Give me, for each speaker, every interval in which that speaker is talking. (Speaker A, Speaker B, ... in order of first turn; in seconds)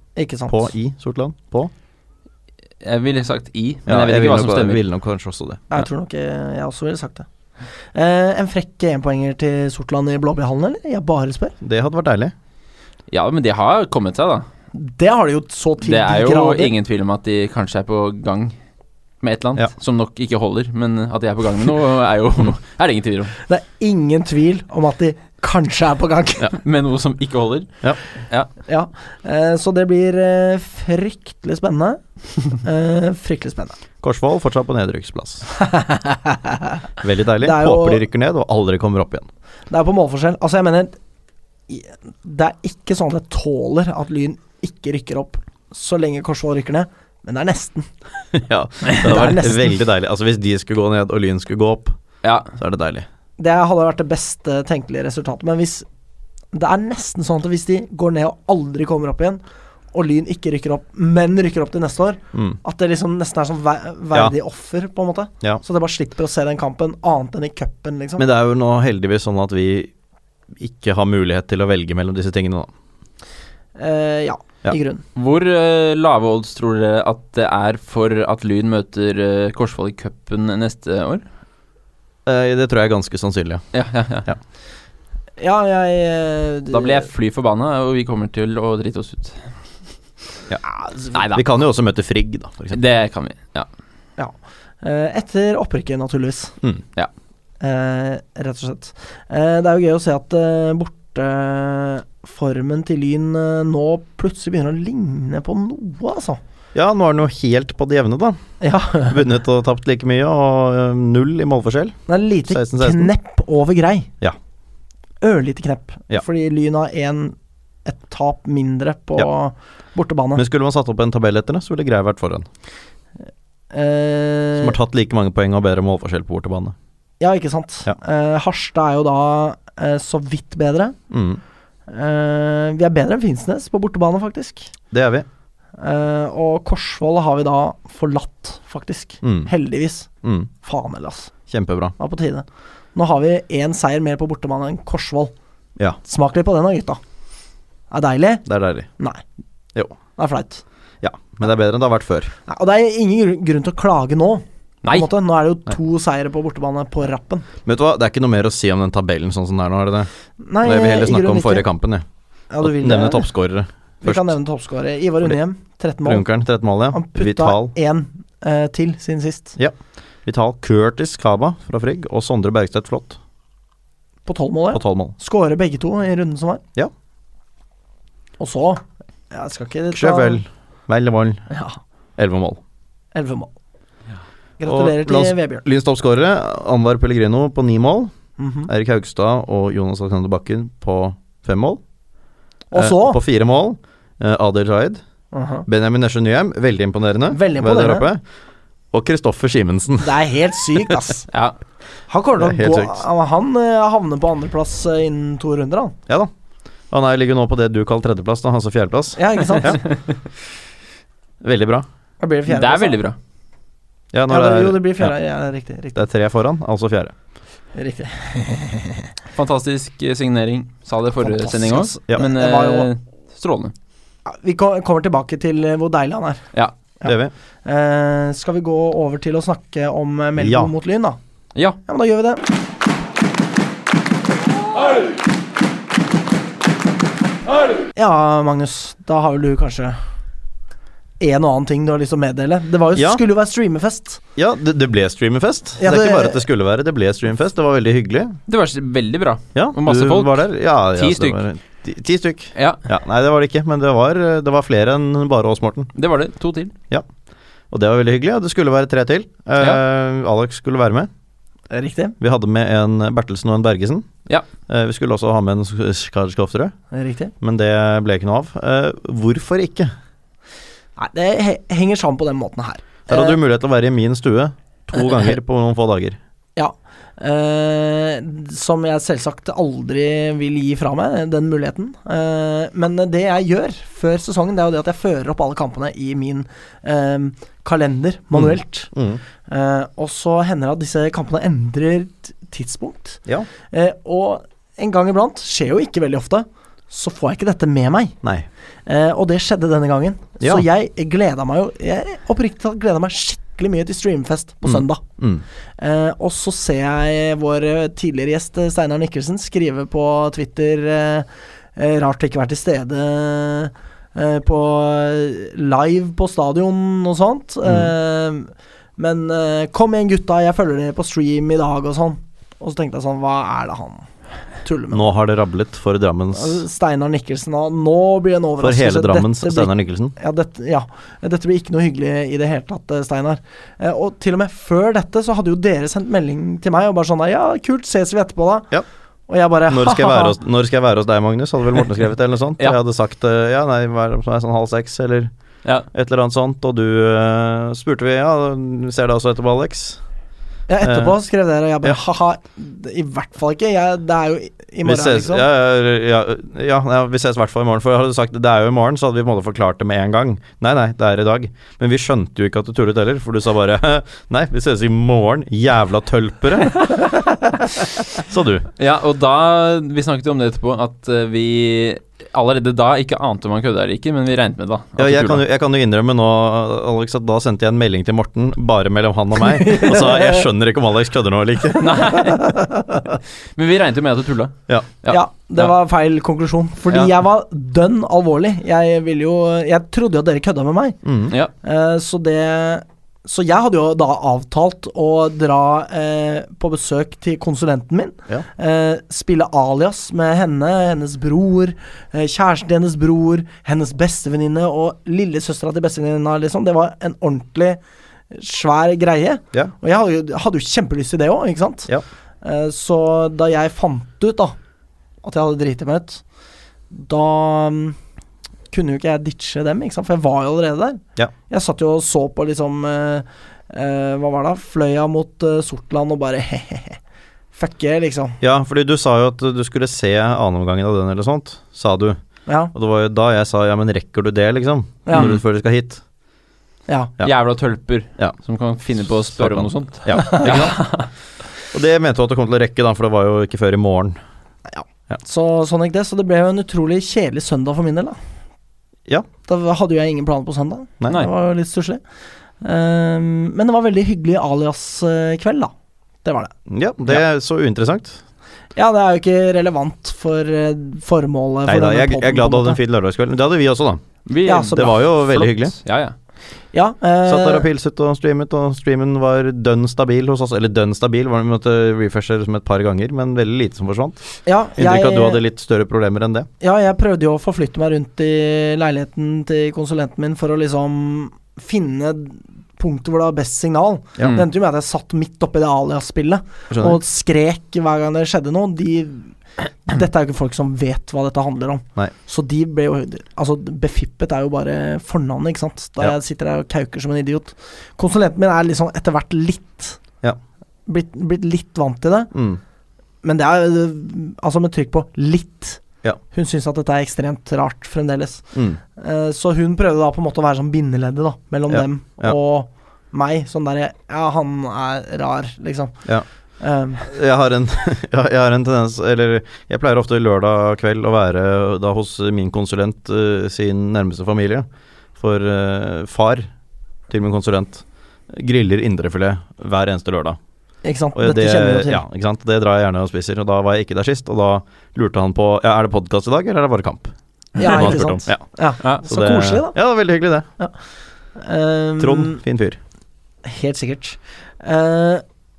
Speaker A: 0.1-0.7, 5.7-7.2, 7.9-11.5, 14.7-16.7, 23.4-26.5, 28.7-33.8, 35.5-36.8, 37.4-38.0, 39.7-41.0, 41.7-47.9, 49.0-49.7, 53.4-55.9, 56.5-59.4, 59.9-68.2, 73.8-75.0, 85.4-87.1, 94.2-96.5, 97.6-106.4, 108.6-109.2, 112.1-114.1, 115.2-120.4, 123.7-124.8, 127.2-130.9, 131.9-134.7, 135.8-140.1, 140.6-141.3, 142.0-145.3, 146.0-147.0, 147.9-148.4, 149.0-149.2, 150.2-150.6, 152.4-157.4, 160.4-161.7, 162.5-163.3, 164.0-166.2, 166.9-169.6, 174.2-176.6, 178.4-180.4, 181.5-181.8, 183.1-183.5, 184.6-185.6, 188.4-188.7, 192.7-193.2, 195.3-195.7, 197.3-198.1, 200.0-201.3, 202.1-205.9, 209.2-209.8, 212.2-213.0, 214.3-216.1, 217.7-219.1, 221.2-222.9, 224.2-226.4, 227.0-231.2, 231.8-232.4, 237.9-240.0, 241.2-244.2, 245.8-246.4, 261.7-262.1, 266.9-267.3, 271.0-273.4, 276.6-288.9, 289.5-298.1, 298.9-305.0, 305.8-324.1, 324.6-325.1, 326.3-338.7, 339.3-340.4, 350.7-355.4, 379.4-380.4, 382.4-382.8, 385.1-391.0, 391.6-407.8, 408.3-411.9, 412.4-414.6, 415.2-416.2, 416.9-418.0, 418.7-427.0, 427.5-428.4, 432.5-432.7, 435.1-435.3, 444.7-448.2, 449.5-452.0, 452.6-455.7, 456.2-456.5, 458.8-462.8, 464.4-464.9, 466.7-467.7, 474.4-475.4, 476.6-500.0, 500.9-502.3, 503.2-508.4, 508.9-516.0, 516.6-517.0, 530.8-532.0, 537.6-539.8, 541.4-542.4, 543.4-545.2
Speaker B: 0.5-1.7, 3.9-5.6, 11.6-12.3, 34.0-35.5, 37.0-39.3, 48.3-52.0, 52.5-53.0, 62.3-62.6, 68.2-69.9, 70.5-72.7, 82.2-83.6, 91.2-92.8, 106.7-108.4, 109.0-113.1, 120.3-122.5, 124.6-126.7, 131.1-131.4, 134.9-135.2, 139.2-139.5, 140.2-140.5, 141.5-141.9, 148.4-148.9, 151.0-152.3, 157.6-160.1, 160.6-162.0, 162.6-164.3, 166.0-167.7, 169.6-173.2, 174.7-175.1, 179.9-181.4, 182.2-182.6, 184.7-188.1, 188.7-191.8, 192.7-195.0, 195.7-198.2, 198.9-200.1, 202.4-203.0, 206.9-209.8, 211.4-211.8, 214.1-215.1, 215.9-217.1, 227.0-227.3, 230.4-230.7, 242.9-243.2, 244.3-248.4, 249.5-255.9, 257.7-261.1, 262.2-264.1, 264.7-266.7, 267.4-269.9, 273.1-276.2, 288.3-289.2, 304.6-305.4, 317.6-317.9, 324.9-326.6, 328.6-330.1, 339.7-345.3, 345.9-350.0, 350.8-351.1, 354.8-367.1, 368.1-368.7, 375.0-381.9, 391.0-391.3, 428.4-432.2, 432.7-436.0, 439.3-440.9, 441.7-444.2, 456.7-458.2, 461.6-464.0, 464.7-465.8, 467.2-474.2, 474.8-476.5, 486.7-487.0, 502.3-502.6, 508.5-508.8, 511.7-512.4, 517.0-524.6, 525.2-526.5, 527.1-530.4, 531.1-538.4, 538.9-540.5, 542.0-542.8
Speaker C: 2.8-4.8, 13.1-14.4, 15.8-18.5, 19.2-23.3, 26.5-28.5, 52.2-52.5, 75.1-81.2, 83.7-84.2, 86.7-89.5, 91.1-91.4, 92.7-93.7, 154.8-155.1, 201.3-201.6, 212.5-213.2, 219.3-223.7, 248.5-251.4, 252.6-252.8, 255.9-256.7, 368.8-375.4, 381.8-382.6, 383.6-385.7, 435.1-435.4, 437.2-441.1, 464.3-466.1